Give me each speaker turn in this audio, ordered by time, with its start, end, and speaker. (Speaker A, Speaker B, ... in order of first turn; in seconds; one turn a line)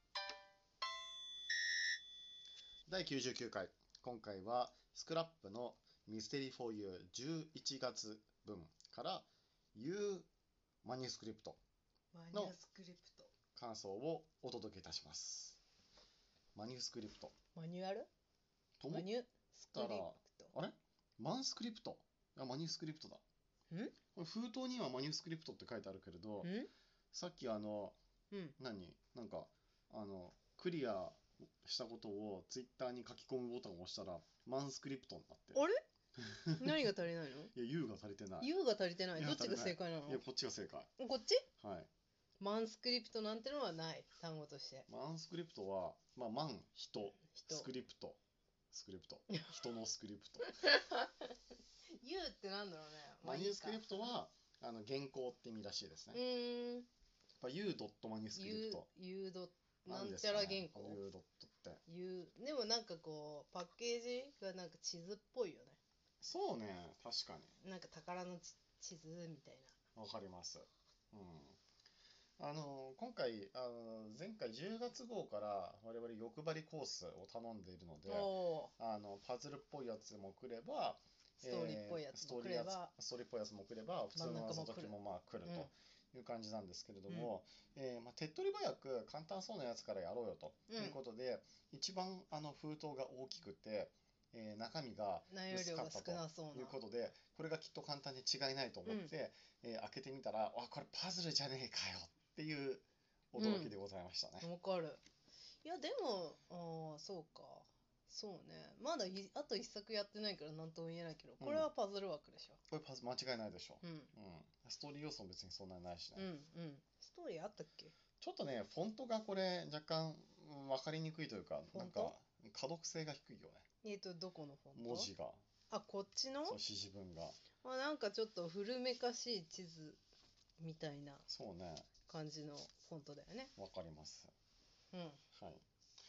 Speaker A: 2.9-10.3
Speaker A: 10.8-11.6
Speaker B: 12.1-13.3
Speaker A: 13.5-15.6
Speaker A: 16.6-17.4
Speaker B: 17.6-18.1
Speaker A: 18.8-19.1
Speaker B: 18.9-20.5
Speaker A: 19.7-23.2
Speaker B: 23.7-23.9
Speaker A: 24.1-26.5
Speaker B: 26.4-26.7
Speaker A: 27.1-28.0
Speaker B: 28.3-28.6
Speaker A: 28.6-35.6
Speaker A: 36.2-36.9
Speaker B: 36.6-37.5
Speaker A: 37.5-38.5
Speaker B: 38.4-40.2
Speaker A: 39.1-40.9
Speaker B: 41.0-41.5
Speaker A: 41.6-41.9
Speaker B: 42.4-44.9
Speaker A: 44.9-48.2
Speaker B: 47.3-47.7
Speaker A: 48.7-50.5
Speaker B: 49.3-49.6
Speaker B: 50.4-51.3
Speaker B: 52.0-54.1
Speaker A: 53.2-56.2
Speaker B: 56.1-56.9
Speaker A: 57.4-58.9
Speaker B: 58.4-61.0
Speaker A: 59.9-61.8
Speaker B: 61.9-65.8
Speaker A: 66.2-67.5
Speaker B: 67.6-69.7
Speaker A: 70.0-71.6
Speaker A: 72.4-104.5
Speaker B: 78.1-78.7
Speaker B: 81.4-82.9
Speaker B: 84.2-85.7
Speaker B: 90.7-91.0
Speaker B: 95.3-96.8
Speaker B: 98.8-99.1
Speaker B: 103.3-103.8
Speaker B: 104.4-105.0
Speaker B: 105.6-112.6
Speaker A: 111.4-111.7
Speaker A: 112.7-116.3
Speaker B: 113.8-114.1
Speaker B: 116.2-117.9
Speaker A: 118.2-123.7
Speaker B: 121.7-122.1
Speaker B: 123.8-125.1
Speaker A: 124.8-125.4
Speaker B: 125.7-126.6
Speaker A: 126.5-127.4
Speaker B: 127.6-130.0
Speaker B: 130.6-131.2
Speaker A: 131.3-131.9
Speaker B: 132.1-133.5
Speaker A: 133.6-134.3
Speaker B: 134.9-135.2
Speaker A: 135.3-135.6